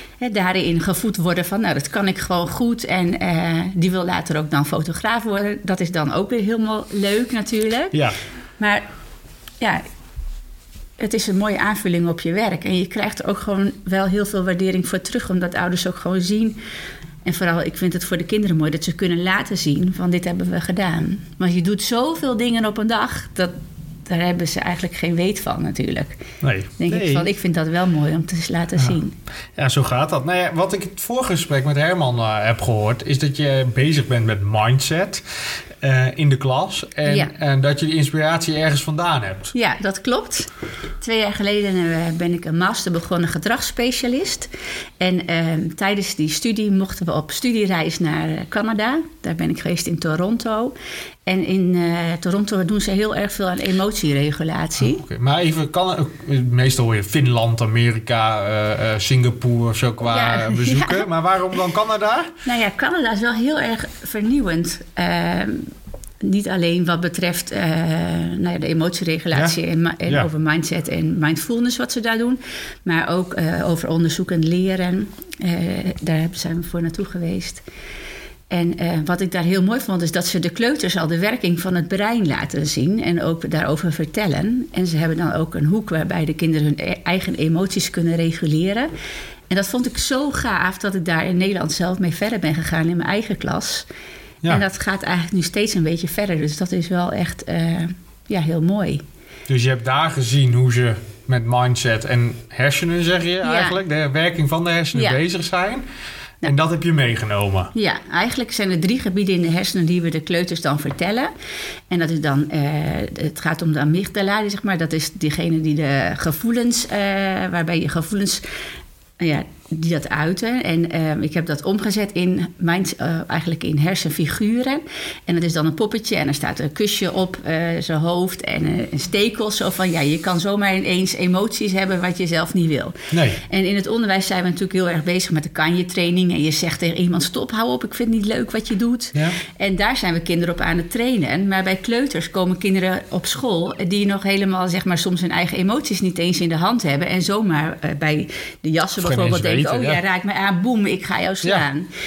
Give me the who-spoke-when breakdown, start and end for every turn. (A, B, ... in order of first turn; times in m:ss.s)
0:00.2-0:08.0 A
0:08.6-0:08.8 A
0:11.0-0:16.6 A
0:17.2-0:23.5 A
0:24.1-0:26.2 A
0:26.4-0:27.3 B
0:26.8-0:29.2 A
0:29.6-0:35.2 B
0:35.8-0:39.5 B
0:37.0-0:37.3 A
0:39.5-0:40.5 A
0:41.0-0:50.7 A
0:51.2-0:55.0 A
0:54.8-1:02.3 B
1:00.0-1:01.0 A
1:02.4-1:05.7 A
1:06.2-1:17.6 A
1:18.5-1:28.9 A
1:29.5-1:33.9 A
1:34.5-1:39.0 A
1:39.5-1:45.8 B
1:43.4-1:43.8 A
1:44.9-1:45.2 A
1:46.4-1:47.7 B
1:47.7-1:51.3 A
1:51.9-1:58.4 A
1:59.2-2:31.9 A
2:13.1-2:13.4 B
2:29.0-2:30.0 B